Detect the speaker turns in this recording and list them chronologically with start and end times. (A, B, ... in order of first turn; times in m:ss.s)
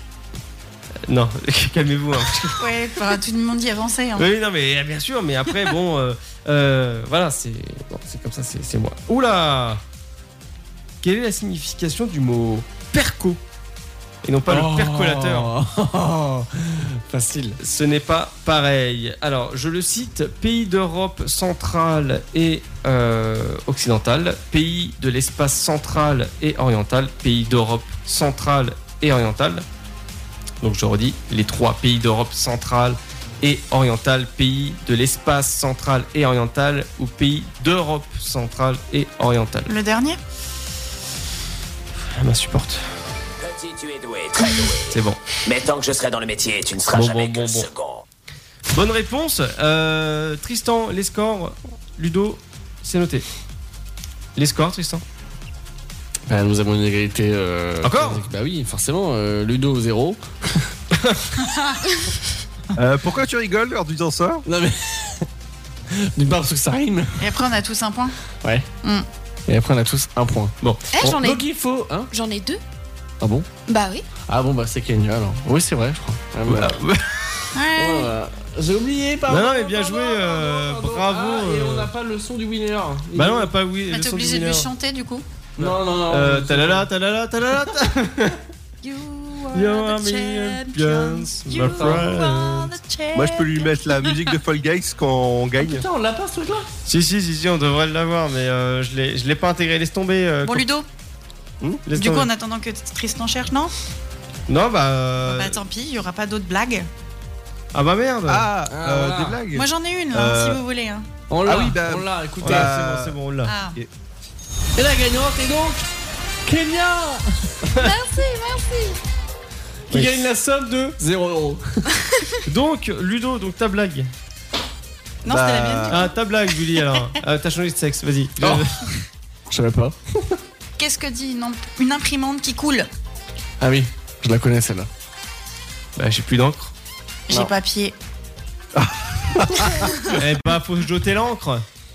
0:01.1-0:02.7 A
0:02.6-0:04.3 B
0:04.2-0:09.8 A
0:11.0-0:13.4 A
0:14.2-0:15.5 A
0:14.5-0:17.6 C
0:17.6-0:29.6 A
0:30.6-0:39.7 A
0:39.7-0:40.2 B
0:42.2-0:42.8 A
0:43.4-0:48.0 D
0:44.9-0:45.2 A
0:46.9-0:47.7 A
0:48.7-0:53.2 A
0:54.4-0:55.0 A
0:56.3-1:00.7 C
0:57.8-0:58.2 A
1:02.8-1:04.4 E
1:04.4-1:05.3 C
1:05.9-1:07.3 C
1:07.2-1:08.1 B
1:09.5-1:12.1 C
1:10.6-1:11.0 A
1:10.9-1:11.4 F
1:12.1-1:12.6 F
1:13.2-1:13.4 C
1:13.7-1:14.0 F
1:14.3-1:16.8 C
1:16.5-1:17.4 A
1:17.5-1:18.1 B
1:17.7-1:23.5 C
1:19.3-1:21.9 A
1:23.1-1:24.7 A
1:23.9-1:25.2 B
1:25.6-1:26.9 C
1:25.6-1:28.4 A
1:28.8-1:34.3 B
1:29.5-1:32.7 A
1:31.5-1:32.0 C
1:33.1-1:35.8 E
1:35.6-1:36.7 C
1:36.8-1:40.7 A
1:40.4-1:40.8 B
1:41.9-1:42.3 A
1:41.9-1:43.7 B
1:44.5-1:45.6 A
1:45.2-1:46.9 B
1:47.7-1:48.5 A
1:48.3-1:50.6 E
1:48.7-1:49.4 C
1:49.5-1:51.1 B
1:51.3-1:53.1 C
1:51.4-1:53.1 E
1:52.4-1:53.5 A
1:53.4-1:53.8 B
1:54.8-1:55.9 C
1:56.4-1:57.7 C
1:57.8-1:59.0 F
1:59.9-2:01.8 C
1:59.9-2:00.2 A
2:02.4-2:04.1 A
2:05.2-2:06.1 B
2:05.2-2:06.0 E
2:05.9-2:08.8 A
2:08.4-2:08.8 C
2:09.5-2:10.4 C
2:10.8-2:12.9 B
2:13.6-2:14.9 C
2:16.0-2:16.7 A
2:17.3-2:18.0 B
2:18.8-2:19.9 E
2:20.1-2:21.6 A